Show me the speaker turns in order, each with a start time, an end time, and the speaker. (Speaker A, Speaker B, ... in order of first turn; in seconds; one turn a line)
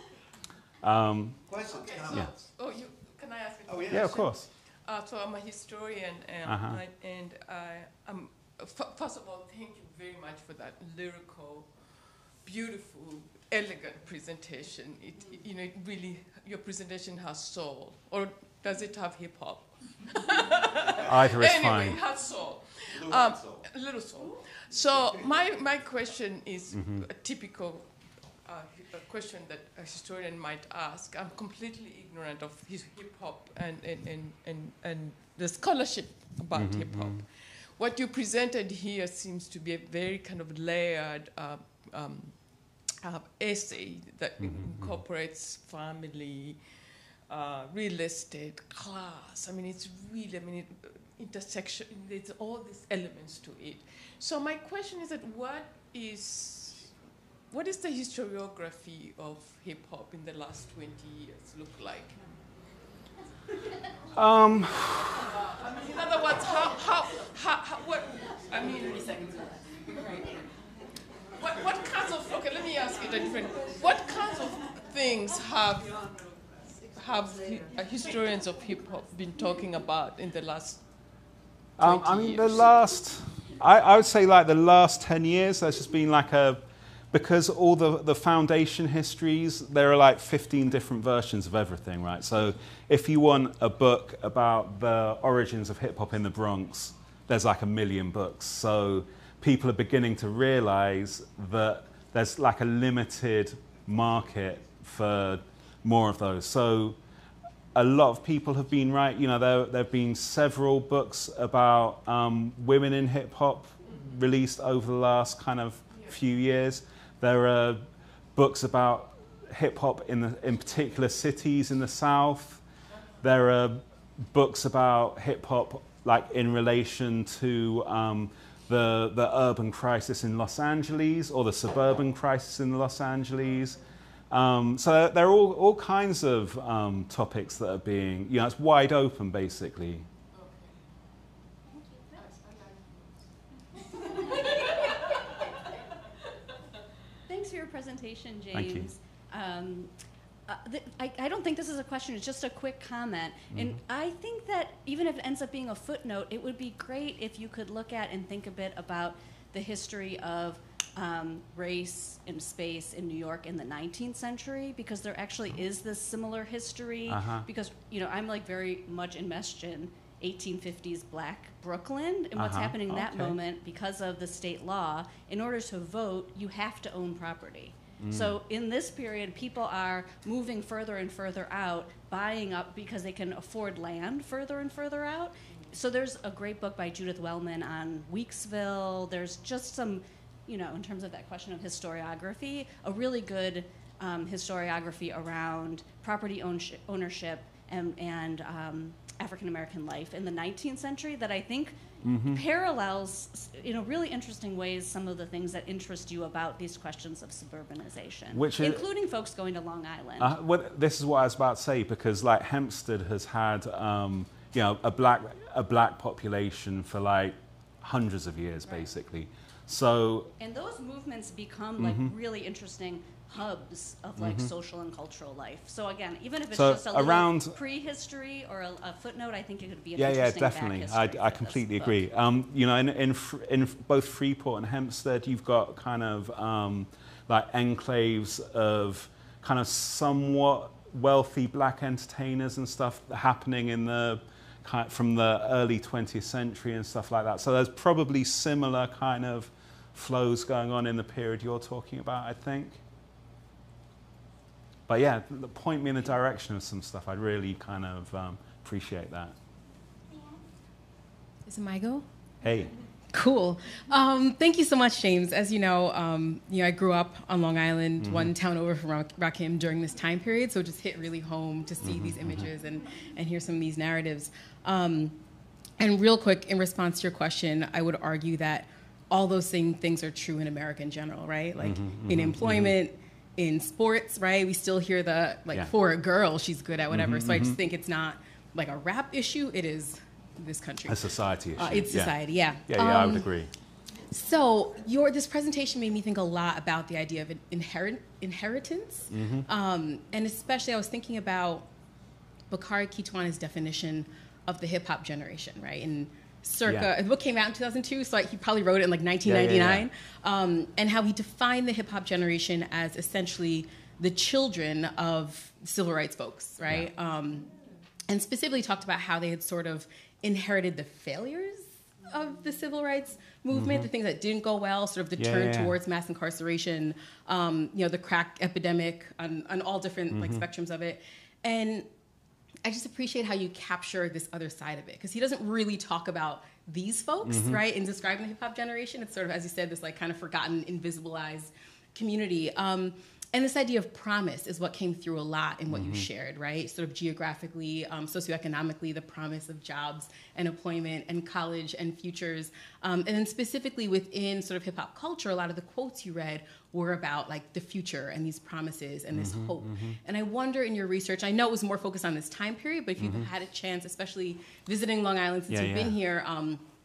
Speaker A: 0.8-1.4
Speaker B: 1.5-2.5
Speaker C: 1.7-56.9
Speaker B: 3.6-4.2
Speaker A: 3.9-4.5
Speaker A: 6.5-6.8
Speaker B: 20.9-21.1
Speaker A: 21.0-22.0
Speaker B: 22.8-23.7
Speaker A: 26.7-27.0
Speaker A: 36.5-37.2
Speaker A: 44.4-45.0
Speaker C: 57.5-62.2
Speaker A: 64.1-65.3
Speaker C: 65.4-70.3
Speaker C: 71.3-76.3
Speaker C: 76.9-80.9
Speaker A: 81.8-107.0
Speaker C: 81.8-82.7
Speaker A: 107.7-122.6
Speaker A: 123.2-133.8
Speaker A: 134.3-140.1
Speaker C: 140.3-140.8
Speaker D: 141.7-142.2
Speaker C: 142.1-143.1
Speaker D: 147.3-149.9
Speaker A: 148.5-148.9
Speaker D: 150.5-210.3
Speaker A: 153.5-153.8
Speaker A: 167.1-167.5
Speaker A: 172.4-173.4
Speaker A: 178.0-178.3
Speaker A: 202.0-202.4
Speaker A: 208.3-208.8
Speaker A: 210.2-220.3
Speaker D: 220.4-232.0
Speaker A: 221.8-222.1
Speaker A: 224.2-224.5
Speaker A: 226.5-227.6
Speaker A: 229.9-252.8
Speaker A: 254.9-259.4
Speaker E: 261.4-262.1
Speaker A: 262.4-262.7
Speaker E: 263.1-275.2
Speaker A: 268.0-268.3
Speaker A: 271.8-272.5
Speaker E: 275.8-291.0
Speaker A: 281.6-282.7
Speaker A: 286.9-287.6
Speaker A: 290.9-292.1
Speaker E: 291.6-293.3
Speaker A: 292.7-293.5
Speaker E: 294.1-301.7
Speaker A: 299.1-299.4
Speaker E: 302.5-317.5
Speaker A: 306.6-306.9
Speaker A: 309.2-309.9
Speaker E: 318.1-331.9
Speaker A: 323.5-323.9
Speaker A: 325.2-325.8
Speaker A: 330.1-330.4
Speaker E: 332.6-366.6
Speaker A: 337.2-337.6
Speaker A: 345.7-346.1
Speaker A: 359.1-359.9
Speaker A: 363.0-363.3
Speaker A: 365.5-365.9